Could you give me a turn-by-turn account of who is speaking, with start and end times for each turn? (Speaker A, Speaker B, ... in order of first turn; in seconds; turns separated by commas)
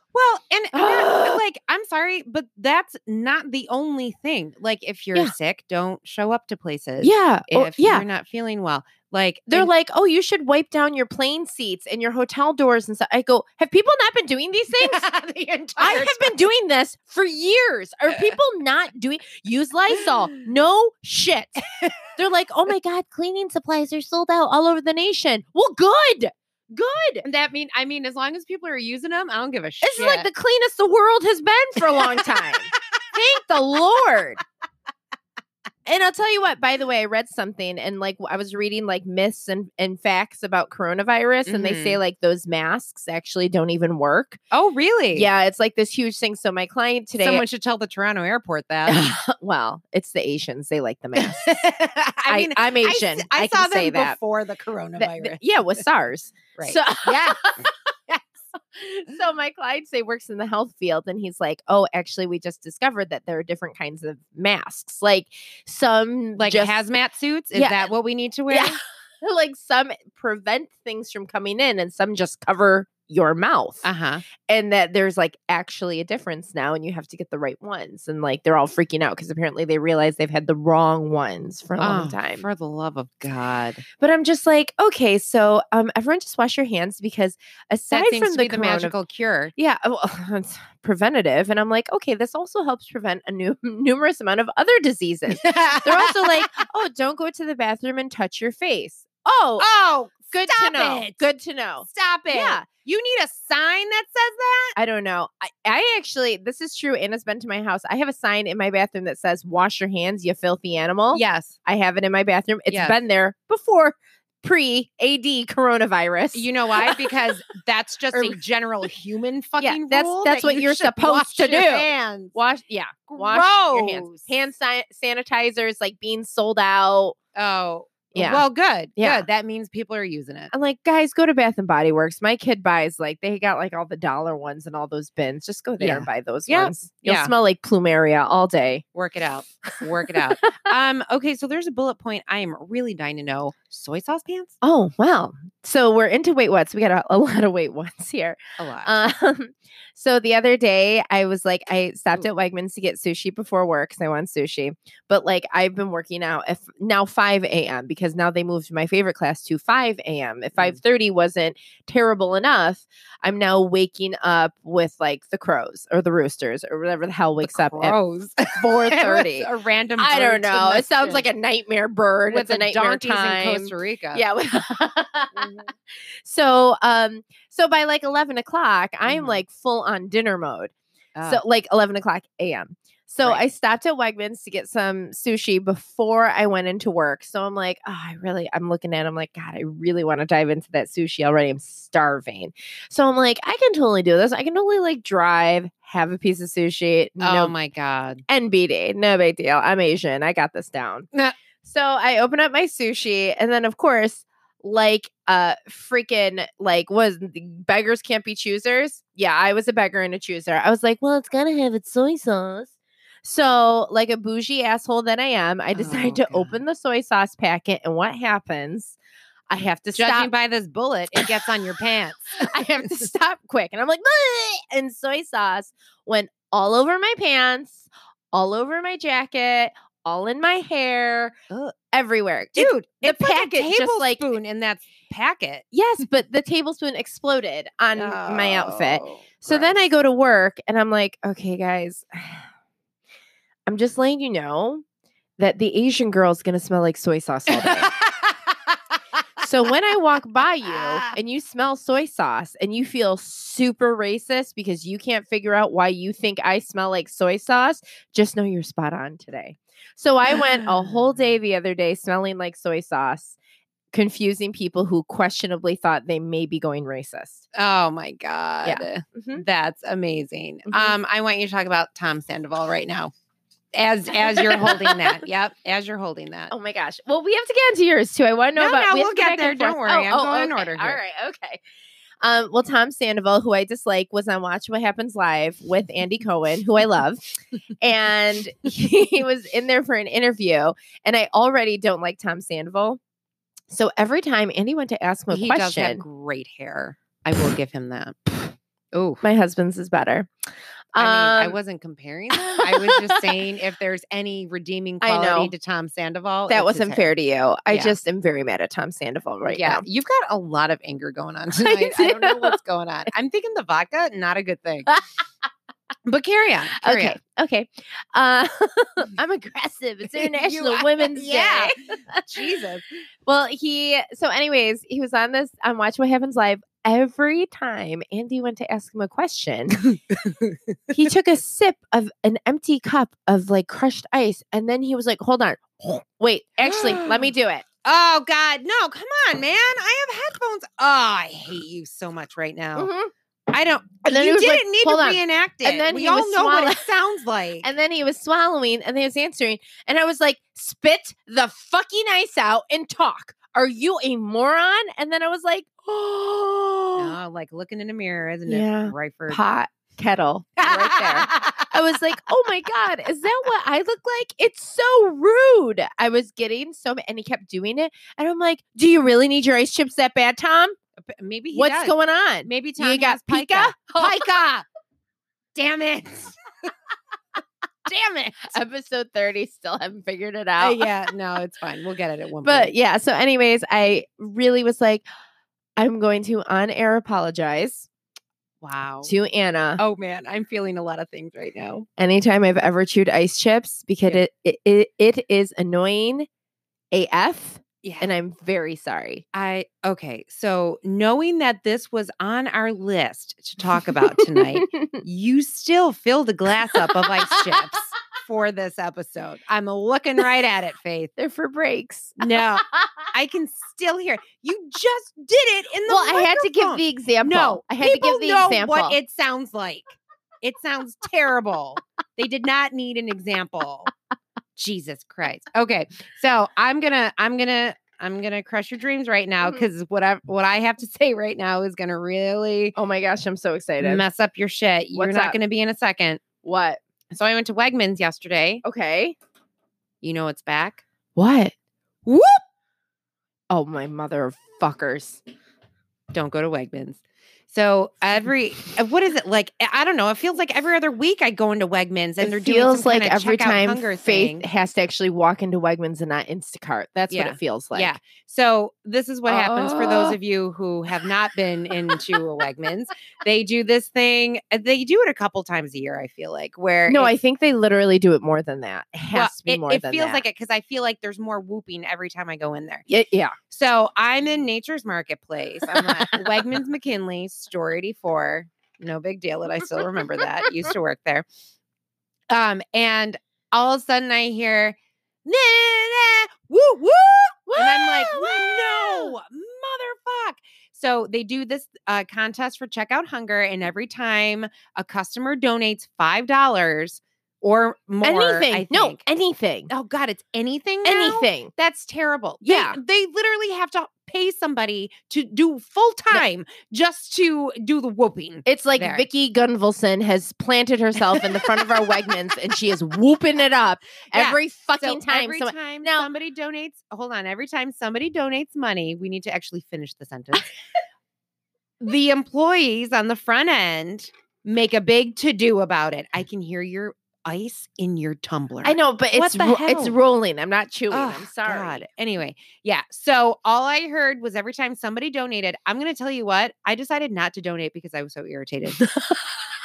Speaker A: 0.1-9.7, Speaker B: 0.7-1.4, Speaker B: 7.0-8.0, Speaker B: 9.5-15.0, Speaker A: 14.7-16.3, Speaker B: 15.8-21.6, Speaker A: 21.7-22.0, Speaker B: 22.1-27.2, Speaker A: 27.2-30.3, Speaker B: 29.8-34.4, Speaker B: 35.8-44.4, Speaker A: 41.5-42.0, Speaker A: 44.5-45.3, Speaker B: 45.1-47.4, Speaker A: 47.2-49.1, Speaker B: 48.9-51.5, Speaker A: 51.1-55.4, Speaker B: 52.3-54.2, Speaker B: 55.0-66.8, Speaker A: 56.6-57.5, Speaker A: 66.4-68.8, Speaker B: 67.5-67.9, Speaker B: 68.5-73.8, Speaker A: 73.8-74.2, Speaker B: 74.4-82.4, Speaker A: 81.8-83.8, Speaker B: 84.0-88.9, Speaker A: 87.9-89.5, Speaker B: 89.5-99.7, Speaker A: 95.3-96.4, Speaker A: 99.6-101.2, Speaker B: 100.3-102.7, Speaker A: 101.9-104.8, Speaker B: 104.8-117.1, Speaker A: 111.1-111.5, Speaker A: 112.7-113.0, Speaker A: 116.3-122.3, Speaker B: 118.1-118.4, Speaker B: 119.6-127.2, Speaker A: 123.1-124.3, Speaker A: 127.3-130.5, Speaker B: 128.1-128.4, Speaker B: 129.0-129.2, Speaker B: 130.5-138.8, Speaker A: 135.8-137.3, Speaker A: 138.9-144.6, Speaker B: 144.6-167.9, Speaker A: 148.6-148.9, Speaker A: 167.4-171.2, Speaker B: 168.5-180.7, Speaker A: 172.3-174.2, Speaker A: 175.4-175.7, Speaker A: 179.0-179.4, Speaker A: 181.2-181.4, Speaker B: 181.2-197.5, Speaker A: 197.2-198.2, Speaker B: 198.3-201.1, Speaker B: 201.6-212.7, Speaker B: 213.2-218.9, Speaker A: 215.7-216.6, Speaker B: 219.5-220.3, Speaker A: 219.9-223.0, Speaker B: 221.1-221.5, Speaker B: 222.3-231.3, Speaker A: 231.5-231.7, Speaker B: 231.9-234.3, Speaker A: 232.6-235.6, Speaker B: 235.7-242.4, Speaker A: 237.9-239.8, Speaker B: 243.7-244.8, Speaker B: 245.4-247.9, Speaker A: 247.5-248.7, Speaker B: 249.4-263.4, Speaker A: 250.7-251.1, Speaker A: 260.5-260.9, Speaker B: 263.9-267.4, Speaker A: 267.5-273.1, Speaker B: 268.6-269.4, Speaker B: 270.7-270.9, Speaker A: 273.7-276.5, Speaker B: 274.2-275.1, Speaker B: 276.5-281.6, Speaker A: 278.6-281.0, Speaker B: 282.2-287.2, Speaker B: 287.8-293.0, Speaker B: 293.7-296.0, Speaker A: 295.3-299.2, Speaker B: 299.2-300.3, Speaker B: 300.9-301.6, Speaker A: 300.9-307.1, Speaker B: 302.5-303.3, Speaker B: 305.0-305.5, Speaker B: 306.5-309.8, Speaker A: 307.7-308.0, Speaker A: 309.4-315.0, Speaker B: 311.6-312.6, Speaker A: 316.1-317.2, Speaker B: 316.8-322.2, Speaker A: 320.1-322.8, Speaker B: 323.2-330.2, Speaker B: 330.9-337.6, Speaker A: 336.6-337.3, Speaker A: 337.8-342.9, Speaker B: 342.8-343.1, Speaker A: 343.5-347.7, Speaker B: 344.0-346.8, Speaker B: 347.6-357.1, Speaker A: 356.9-359.4, Speaker B: 358.5-370.8, Speaker A: 360.6-361.7, Speaker A: 371.0-374.7, Speaker B: 371.5-374.2, Speaker A: 375.5-376.7, Speaker A: 377.9-378.6, Speaker B: 378.4-380.9, Speaker A: 380.6-382.7, Speaker B: 382.4-385.0, Speaker B: 385.8-387.9, Speaker A: 388.6-389.1, Speaker B: 389.0-389.8, Speaker A: 389.8-391.9, Speaker B: 392.0-396.3, Speaker B: 396.9-399.2, Speaker A: 397.8-398.1, Speaker A: 399.3-411.1, Speaker B: 404.2-405.0, Speaker B: 406.7-407.6, Speaker B: 411.2-412.9, Speaker A: 412.2-423.9, Speaker B: 415.9-418.9, Speaker A: 424.6-432.8, Speaker B: 432.8-434.0, Speaker A: 433.8-436.2, Speaker B: 434.9-435.4, Speaker B: 436.4-436.8, Speaker A: 437.1-438.6, Speaker B: 438.6-439.1, Speaker A: 440.0-440.8, Speaker B: 441.1-441.5, Speaker A: 442.1-442.4, Speaker B: 443.5-445.2, Speaker A: 446.1-454.4, Speaker B: 452.2-457.9, Speaker A: 457.1-467.1, Speaker B: 459.3-460.2, Speaker B: 466.9-470.2, Speaker A: 469.1-472.8, Speaker B: 472.9-473.3, Speaker A: 473.5-481.2, Speaker B: 475.7-476.2, Speaker A: 482.3-499.0, Speaker B: 487.5-489.1, Speaker B: 498.0-499.7, Speaker A: 499.7-509.1, Speaker B: 500.8-501.5, Speaker B: 502.4-502.8, Speaker B: 508.4-516.1, Speaker A: 511.1-511.9, Speaker A: 514.1-520.5, Speaker A: 521.8-530.0, Speaker B: 528.6-531.8, Speaker A: 530.9-538.8, Speaker B: 538.8-539.3